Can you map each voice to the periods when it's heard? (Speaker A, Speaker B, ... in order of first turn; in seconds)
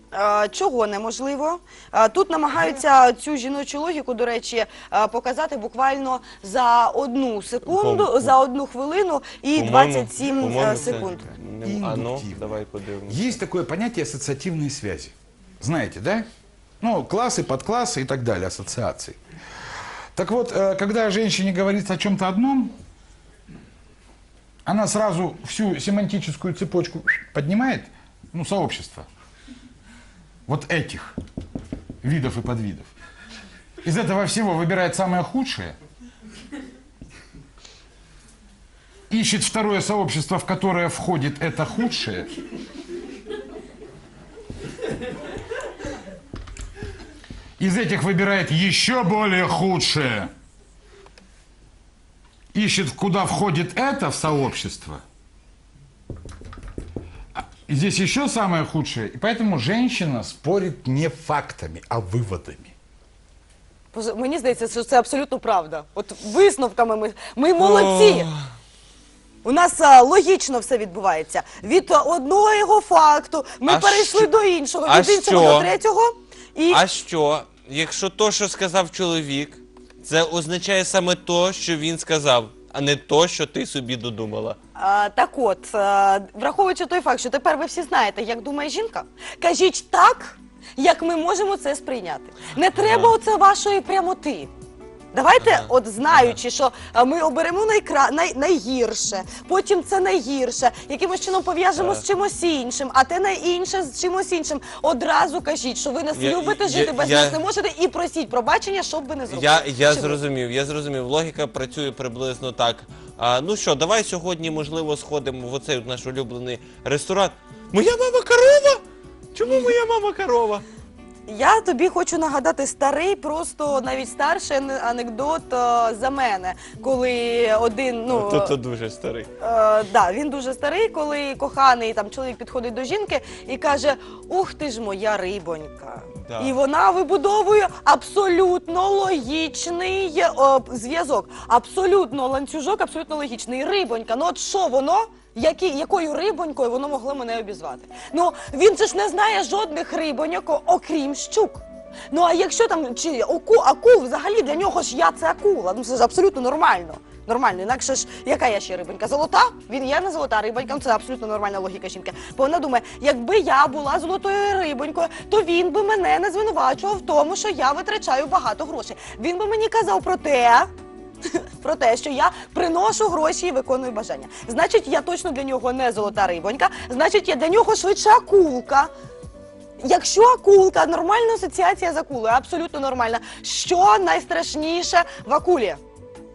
Speaker A: 0.1-11.3, 63.9-68.3, 69.4-76.8, 84.8-94.5, 95.1-110.2, 121.3-128.5, 129.4-170.7, 171.3-178.9, 179.8-185.8
Speaker B: 7.6-8.4, 9.6-13.4, 67.6-68.5, 73.7-74.3, 74.8-75.8, 76.7-84.6, 92.8-93.2, 95.4-96.4, 101.8-102.0, 106.1-107.4, 109.3-118.8, 119.3-120.6, 128.1-129.3, 136.3-136.6
Speaker C: 11.6-16.3, 16.8-19.2, 20.1-22.8, 24.6-29.1, 30.5-31.1, 32.0-32.9, 33.8-35.8, 39.1-42.3, 47.6-50.3, 52.5-55.0, 57.4-62.7